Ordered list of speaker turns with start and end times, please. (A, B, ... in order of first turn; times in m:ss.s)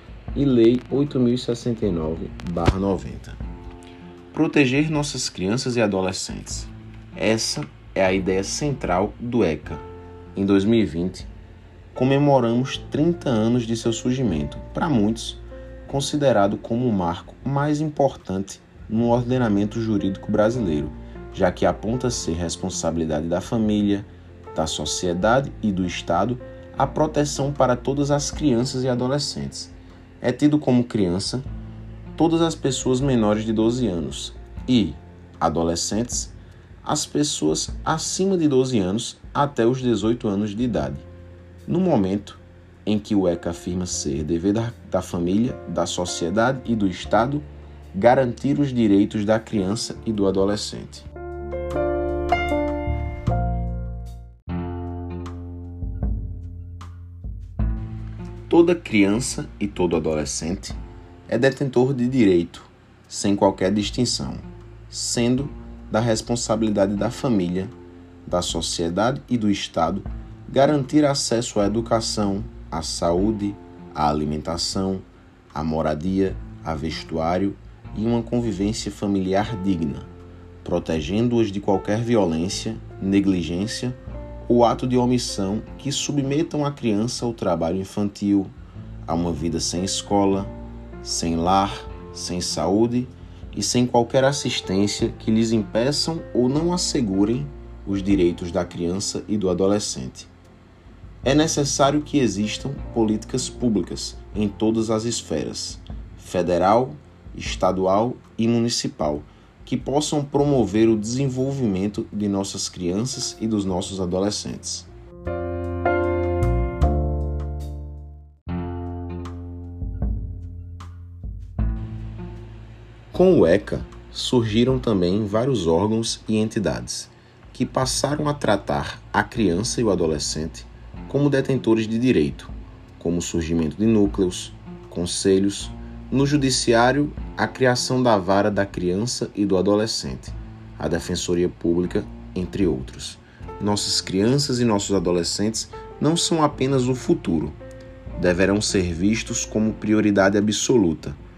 0:00.3-0:03.4 A
0:04.3-0:11.3 A
0:11.9-0:31.5 A
0:32.2-0:41.1 A
0:41.7-0:51.1 A
0:58.5-1:07.7 A
1:08.3-1:20.1 A
1:20.6-1:28.5 A
1:29.0-1:40.3 A
1:41.2-1:54.9 A
2:03.1-2:27.6 A
2:28.2-2:31.2 A